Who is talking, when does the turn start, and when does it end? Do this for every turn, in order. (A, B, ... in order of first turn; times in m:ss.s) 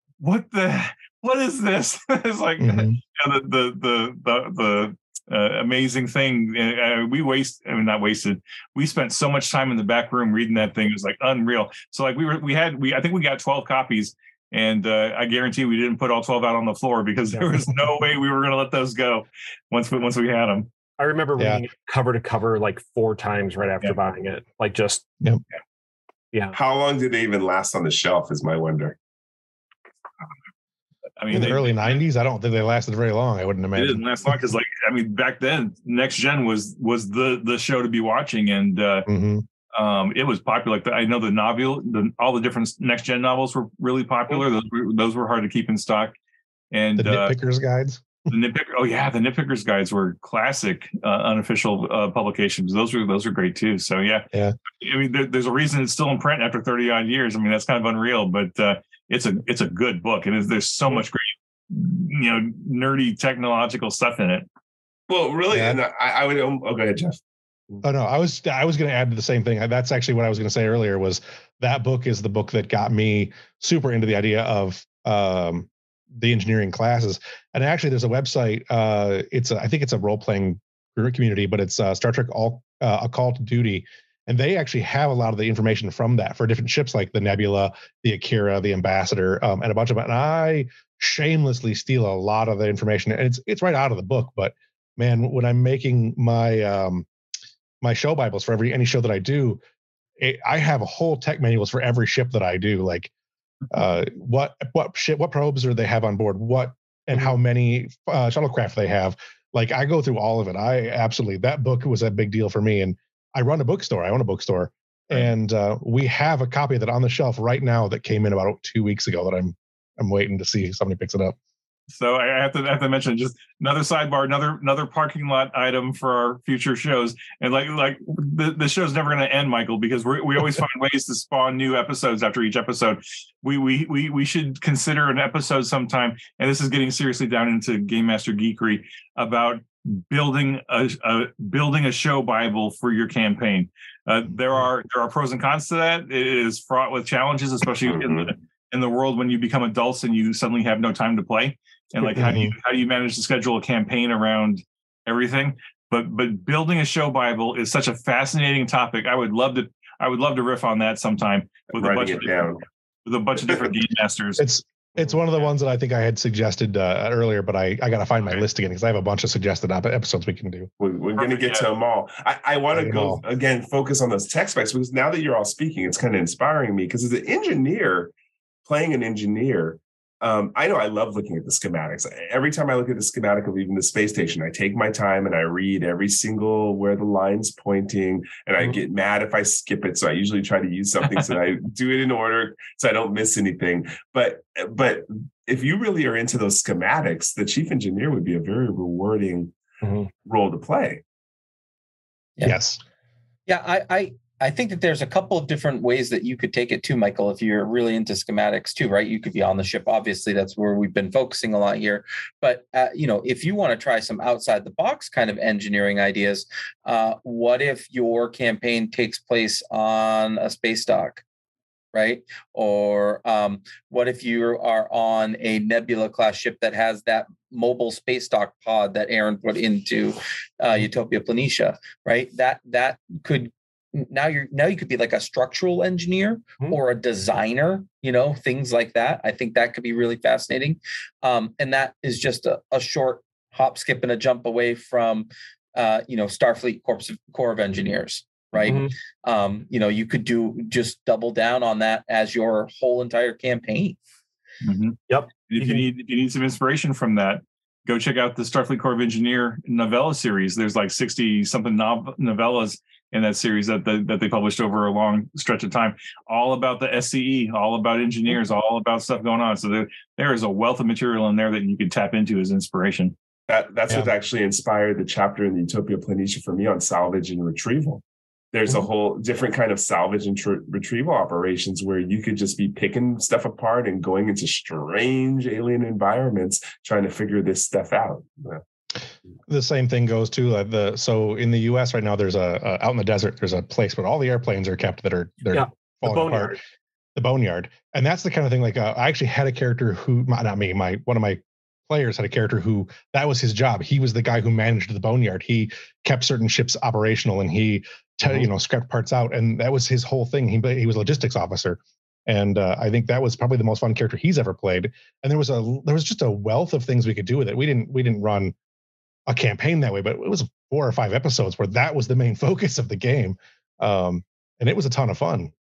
0:00.2-0:20.7 A
0:02.6-0:03.0 B
0:17.3-0:17.6 C
0:21.0-0:25.0 C
0:21.4-0:21.6 B
0:26.5-0:29.0 D
0:31.2-0:32.0 A
0:31.3-0:34.4 B
0:33.8-0:39.1 A
0:39.1-0:39.4 B
0:39.7-0:46.1 A
0:46.7-0:47.3 A
0:47.0-0:48.3 B
0:48.3-0:54.2 A
0:54.8-1:04.4 A
1:05.1-1:07.2 D
1:05.5-1:05.8 B
1:07.8-1:37.1 B
1:37.8-1:39.6 B
1:40.2-1:43.1 B
1:43.7-2:01.4 B
2:01.9-2:44.4 A
2:27.8-2:28.3 D
2:32.1-2:32.5 B
2:41.7-2:42.6 D
2:44.4-2:50.7 B
2:50.8-2:58.1 D
2:51.2-2:51.6 A
2:52.7-2:53.2 B
2:58.6-3:19.6 D
3:20.2-3:21.0 D
3:22.4-3:22.8 B
3:23.5-3:41.2 E
3:41.9-4:14.0 E
4:08.6-4:08.9 C
4:14.6-4:33.1 A
4:15.1-4:15.8 C
4:33.5-4:48.6 D
4:49.5-4:56.6 B
4:55.5-4:56.6 C
4:57.2-5:18.5 B
5:19.3-5:25.5 B